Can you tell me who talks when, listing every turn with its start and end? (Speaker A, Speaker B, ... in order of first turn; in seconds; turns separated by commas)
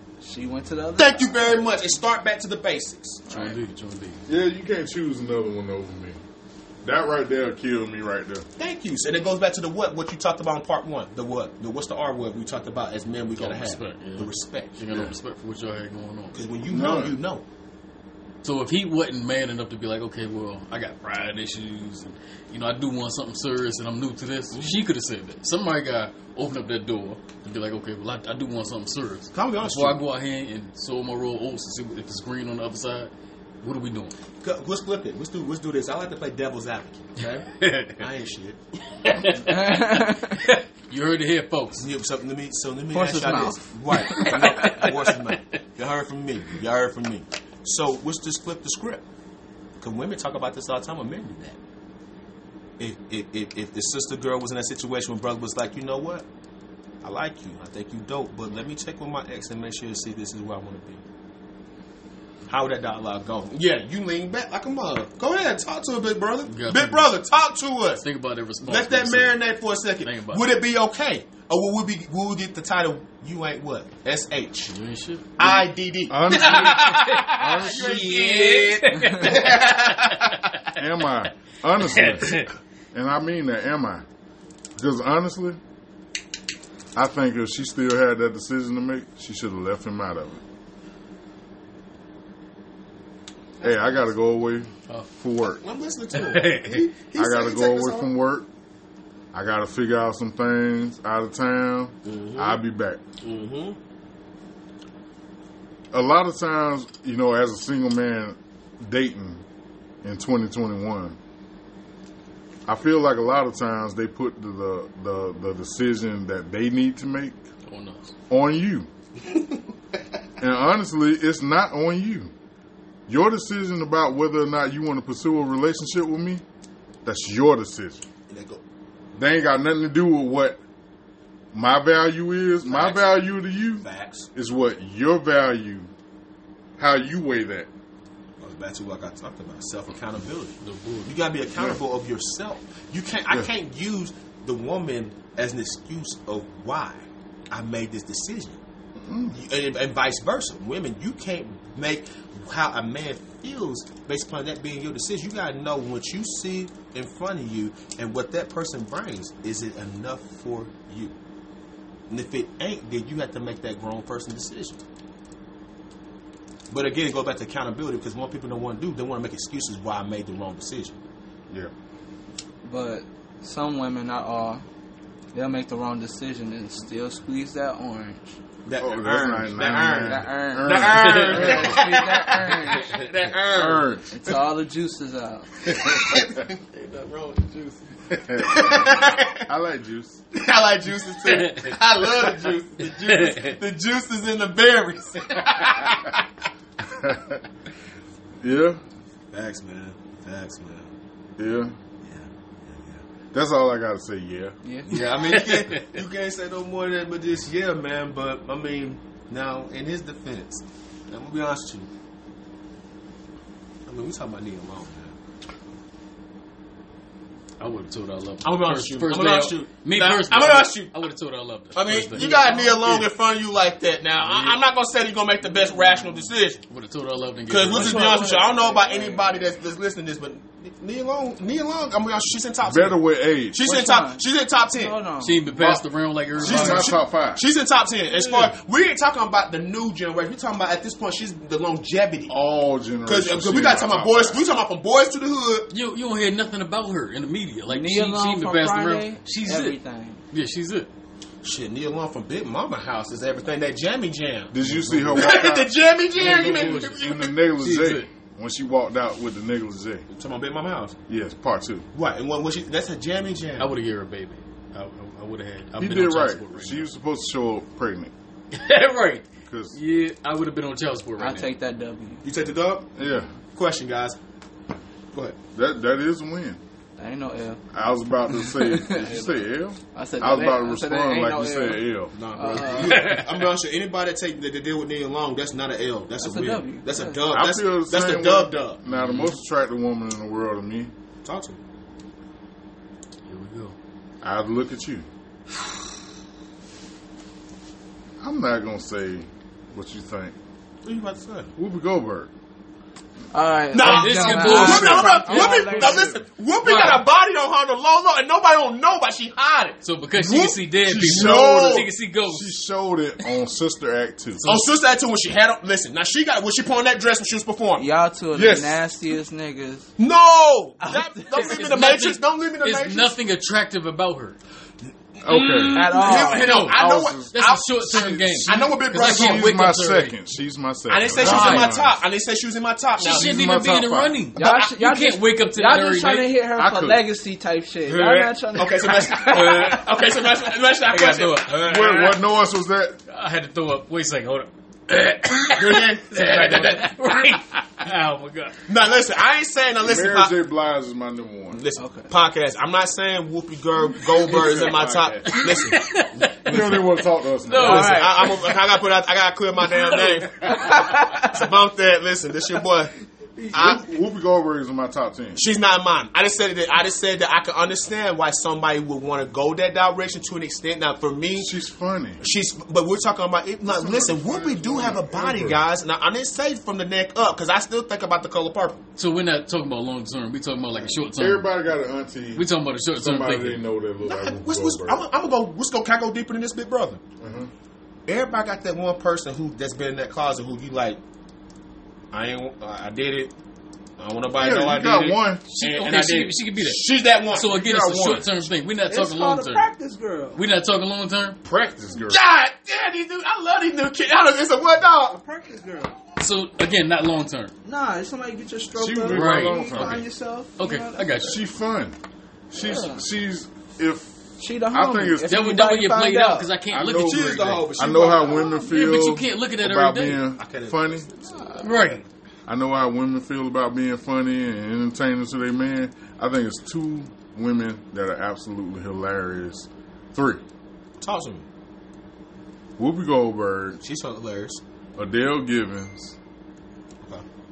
Speaker A: 0.2-1.8, Speaker B: 1.0-3.3, Speaker C: 3.3-4.2, Speaker A: 3.3-3.6, Speaker D: 4.3-6.2, Speaker D: 6.8-8.4, Speaker B: 8.6-14.7, Speaker C: 13.3-16.4, Speaker B: 16.3-17.4, Speaker D: 16.7-17.2, Speaker C: 18.4-33.1, Speaker B: 24.5-24.8, Speaker B: 29.3-30.0, Speaker C: 33.6-34.1, Speaker B: 34.4-38.6, Speaker C: 37.6-38.0, Speaker C: 39.0-41.9, Speaker A: 39.4-40.4, Speaker B: 41.8-49.0, Speaker A: 42.9-44.8, Speaker C: 44.0-45.4, Speaker B: 49.8-51.6, Speaker B: 52.8-56.2, Speaker B: 57.0-61.0, Speaker B: 62.5-68.0, Speaker C: 66.5-67.1, Speaker C: 68.0-69.4, Speaker B: 68.6-74.7, Speaker C: 70.0-70.4, Speaker C: 74.7-75.3, Speaker B: 75.4-80.5, Speaker D: 75.4-78.1, Speaker C: 76.3-80.6, Speaker D: 80.7-84.0, Speaker C: 81.8-82.5, Speaker D: 84.8-85.6, Speaker D: 86.9-90.4, Speaker D: 93.6-95.6, Speaker B: 93.6-94.0, Speaker B: 95.4-98.1, Speaker C: 96.1-96.9, Speaker D: 97.1-98.5, Speaker D: 99.3-103.0, Speaker B: 102.0-102.6, Speaker B: 103.2-103.8, Speaker D: 105.9-109.4, Speaker D: 110.0-111.2, Speaker D: 112.7-117.4, Speaker C: 117.7-118.1, Speaker D: 118.3-118.9, Speaker D: 120.4-122.3, Speaker D: 123.1-126.4, Speaker D: 127.0-128.0, Speaker B: 128.3-128.6, Speaker D: 129.2-130.6, Speaker D: 131.5-135.9, Speaker B: 132.7-133.2, Speaker B: 133.8-134.3, Speaker D: 136.8-137.7, Speaker B: 138.4-148.6, Speaker C: 140.6-141.1, Speaker D: 149.0-149.3, Speaker B: 149.3-161.1, Speaker B: 162.1-164.8, Speaker B: 166.7-171.0, Speaker A: 172.6-174.6, Speaker A: 175.3-178.3, Speaker B: 178.6-183.9, Speaker D: 178.8-181.6, Speaker A: 180.0-183.0, Speaker C: 180.9-181.8, Speaker D: 183.5-184.3, Speaker A: 184.1-185.9, Speaker B: 185.7-189.5, Speaker D: 188.1-190.2, Speaker B: 190.3-196.2, Speaker C: 191.2-191.7, Speaker C: 192.9-193.6, Speaker D: 196.9-197.4, Speaker D: 198.4-198.8, Speaker B: 199.3-200.9, Speaker D: 201.4-201.7, Speaker B: 202.0-203.0, Speaker D: 203.3-204.5, Speaker A: 204.6-204.9, Speaker B: 204.8-211.9, Speaker C: 204.9-206.0, Speaker B: 213.8-215.1, Speaker C: 217.6-223.0, Speaker B: 218.4-220.9, Speaker B: 221.7-226.6, Speaker A: 222.1-222.8, Speaker C: 224.2-224.6, Speaker C: 226.7-228.3, Speaker B: 227.5-234.9, Speaker A: 227.7-229.4, Speaker D: 232.6-233.7, Speaker A: 233.6-235.4, Speaker C: 235.2-236.9, Speaker D: 235.5-235.8, Speaker D: 236.4-237.4, Speaker B: 236.4-242.3, Speaker C: 238.1-238.5, Speaker D: 242.3-244.5, Speaker B: 243.0-245.7, Speaker C: 245.7-249.8, Speaker A: 247.7-250.2, Speaker C: 250.3-250.9, Speaker B: 251.4-257.3, Speaker D: 254.5-255.7, Speaker C: 256.1-258.1, Speaker D: 256.7-260.1, Speaker B: 260.1-261.0, Speaker D: 261.1-261.9, Speaker B: 261.9-263.7, Speaker C: 263.6-266.9, Speaker D: 265.8-268.1, Speaker C: 268.5-271.5, Speaker D: 269.5-269.8, Speaker A: 271.2-272.2, Speaker B: 272.2-272.9, Speaker D: 272.9-273.3, Speaker B: 273.5-274.2, Speaker B: 275.1-275.4, Speaker D: 275.5-276.6, Speaker A: 277.0-277.6, Speaker D: 277.7-282.1, Speaker A: 278.3-283.1, Speaker B: 282.1-288.8, Speaker C: 282.7-283.5, Speaker A: 286.2-287.2, Speaker D: 287.3-290.9, Speaker C: 288.9-289.4, Speaker B: 291.2-291.6, Speaker C: 293.3-293.7, Speaker D: 294.2-295.1, Speaker D: 298.2-300.3, Speaker B: 300.8-301.5, Speaker D: 301.6-302.3, Speaker A: 303.3-306.2, Speaker B: 303.7-311.9, Speaker C: 303.8-306.0, Speaker C: 306.6-307.0, Speaker C: 309.8-312.5, Speaker D: 310.8-314.4, Speaker C: 314.4-314.7, Speaker B: 314.4-317.9, Speaker A: 317.8-319.9, Speaker D: 318.3-318.8, Speaker B: 320.0-323.1, Speaker A: 320.8-321.8, Speaker C: 321.3-324.4, Speaker B: 325.2-329.5, Speaker D: 325.2-326.0, Speaker C: 325.3-330.1, Speaker A: 325.7-326.6, Speaker D: 326.7-327.3, Speaker D: 327.9-332.0, Speaker B: 330.9-333.4, Speaker C: 331.1-331.8, Speaker C: 333.0-336.3, Speaker D: 333.0-334.2, Speaker A: 334.4-339.9, Speaker D: 336.6-337.0, Speaker B: 337.9-342.2, Speaker C: 340.9-341.7, Speaker D: 341.6-343.0, Speaker C: 343.1-348.6, Speaker B: 345.5-347.0, Speaker B: 348.7-350.3, Speaker D: 349.8-351.6, Speaker B: 351.5-356.0, Speaker A: 351.8-352.1, Speaker C: 354.1-358.8, Speaker D: 354.3-355.3, Speaker D: 356.4-358.0, Speaker A: 357.5-358.3, Speaker B: 357.6-362.9, Speaker C: 359.6-360.6, Speaker A: 360.5-361.3, Speaker B: 363.5-363.8, Speaker D: 363.5-365.4, Speaker B: 365.3-371.5, Speaker D: 371.4-372.2, Speaker B: 372.2-378.8, Speaker D: 373.6-375.6, Speaker C: 379.0-381.5, Speaker D: 381.2-385.0, Speaker C: 382.3-383.6, Speaker B: 384.0-387.0, Speaker D: 387.2-387.5, Speaker B: 388.1-391.0, Speaker B: 392.1-393.3, Speaker B: 394.0-398.2, Speaker D: 394.3-395.4, Speaker C: 395.5-399.6, Speaker D: 397.7-398.2, Speaker A: 398.9-400.4, Speaker C: 400.3-401.4, Speaker D: 401.4-402.2, Speaker B: 401.9-405.2, Speaker A: 405.1-406.0, Speaker C: 406.2-407.5, Speaker A: 407.6-411.2, Speaker D: 408.8-410.1, Speaker C: 409.1-410.1, Speaker C: 410.6-411.4, Speaker D: 411.2-411.9, Speaker D: 412.5-414.2, Speaker A: 412.5-413.0, Speaker A: 414.4-416.5, Speaker D: 414.7-415.4, Speaker C: 415.2-417.7, Speaker D: 416.7-421.1, Speaker B: 416.8-418.6, Speaker C: 418.5-420.2, Speaker B: 420.3-422.0, Speaker A: 421.2-421.8, Speaker C: 421.6-422.0, Speaker D: 422.4-430.4, Speaker B: 431.0-431.4, Speaker D: 432.8-433.8, Speaker B: 433.8-434.6, Speaker D: 434.9-436.1